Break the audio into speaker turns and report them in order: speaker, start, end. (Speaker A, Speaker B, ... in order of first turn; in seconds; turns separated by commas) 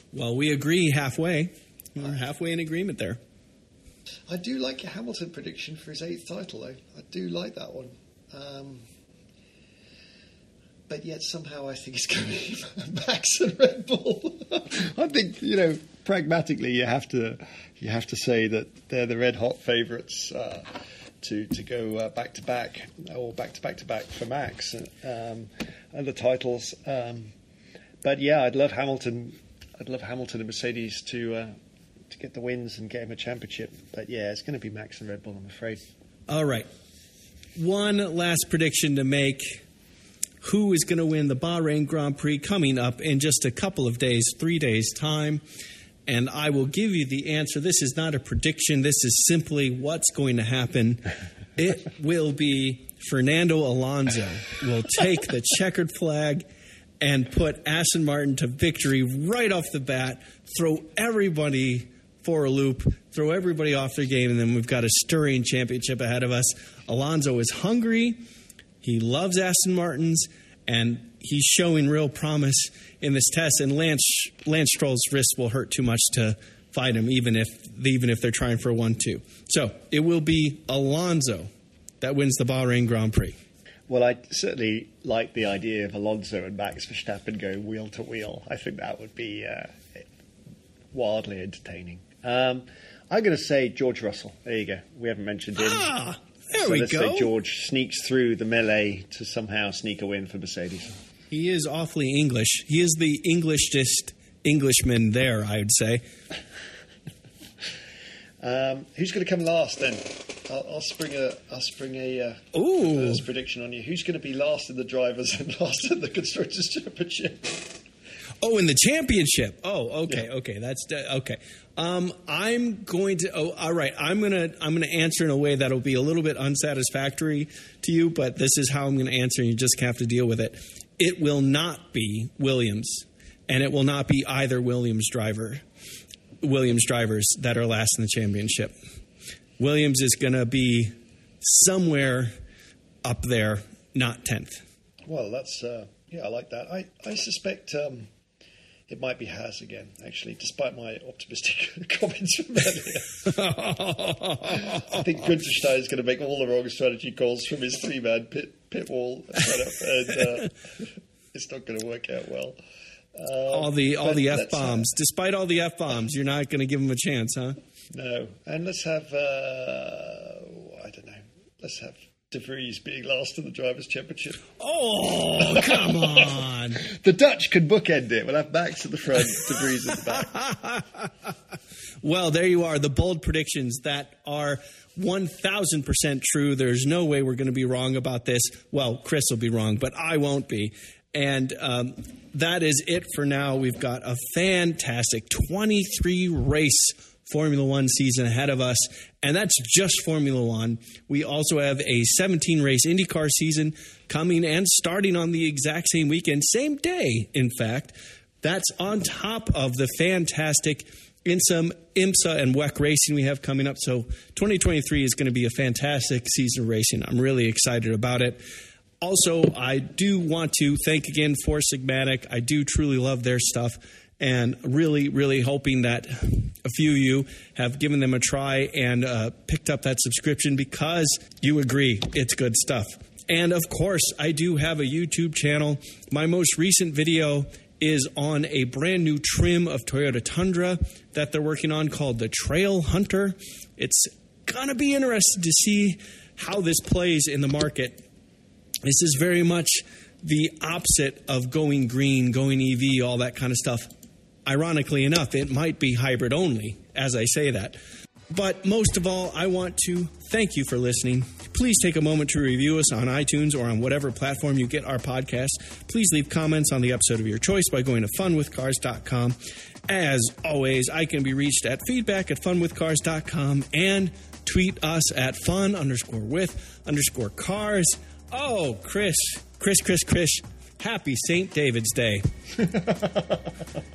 Speaker A: 0.1-3.2, Speaker B: 4.3-8.9, Speaker B: 10.9-27.3, Speaker B: 28.0-31.5, Speaker B: 32.1-35.9, Speaker A: 36.3-36.7, Speaker A: 37.6-39.6, Speaker A: 40.4-45.4, Speaker A: 46.1-51.0, Speaker A: 51.6-56.5, Speaker A: 57.0-68.2, Speaker A: 68.8-81.5, Speaker A: 82.0-83.4, Speaker B: 83.9-90.0, Speaker B: 90.9-95.9, Speaker A: 95.6-97.3, Speaker B: 96.5-100.9, Speaker A: 101.3-106.0, Speaker B: 108.4-117.8, Speaker A: 112.5-113.2, Speaker A: 118.4-135.6, Speaker A: 136.4-138.8, Speaker A: 139.6-142.3, Speaker A: 143.0-144.6, Speaker B: 145.1-148.1, Speaker B: 148.9-153.3, Speaker A: 153.3-155.0, Speaker B: 154.5-162.6, Speaker B: 163.1-164.9, Speaker A: 163.5-167.6, Speaker B: 167.9-174.5, Speaker A: 174.6-176.8, Speaker B: 175.4-180.4, Speaker A: 180.2-181.3, Speaker A: 182.0-218.4, Speaker A: 219.0-248.1, Speaker A: 248.8-253.9, Speaker A: 254.5-257.8, Speaker A: 258.3-269.4, Speaker A: 269.9-282.3, Speaker B: 282.6-283.6